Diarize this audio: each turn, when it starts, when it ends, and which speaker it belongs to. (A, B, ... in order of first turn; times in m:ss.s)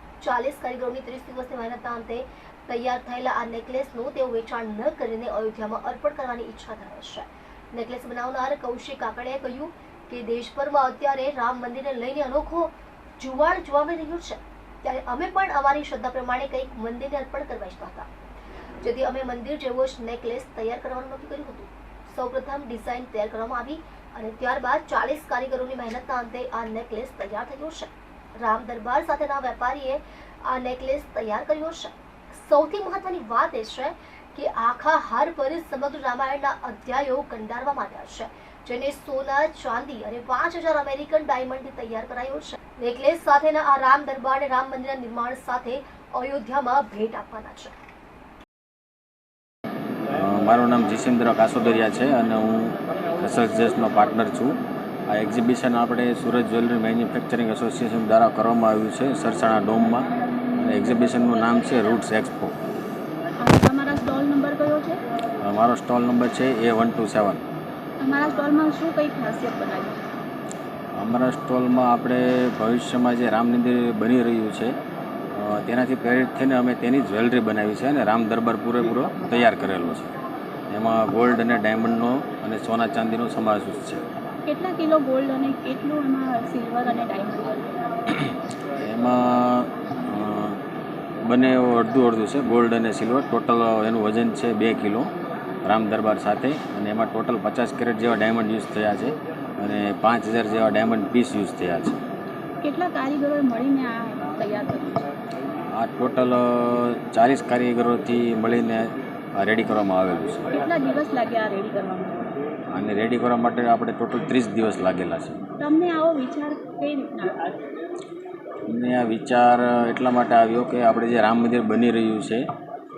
0:00.2-0:18.1 A
0:18.8-0:47.7 A
0:50.1-1:02.6 B
1:03.4-1:05.0 C
1:05.4-1:07.4 B
1:08.0-1:10.0 C
1:11.0-1:14.8 B
1:15.3-1:20.1 B
1:20.7-1:24.1 B
1:24.5-1:27.7 C
1:28.1-1:30.6 B
1:31.2-1:35.1 B
1:35.6-1:42.0 B
1:42.6-1:45.1 C
1:45.7-1:50.5 B
1:50.5-1:52.3 C
1:52.7-1:55.4 B
1:55.6-1:57.4 C
1:58.7-2:02.5 B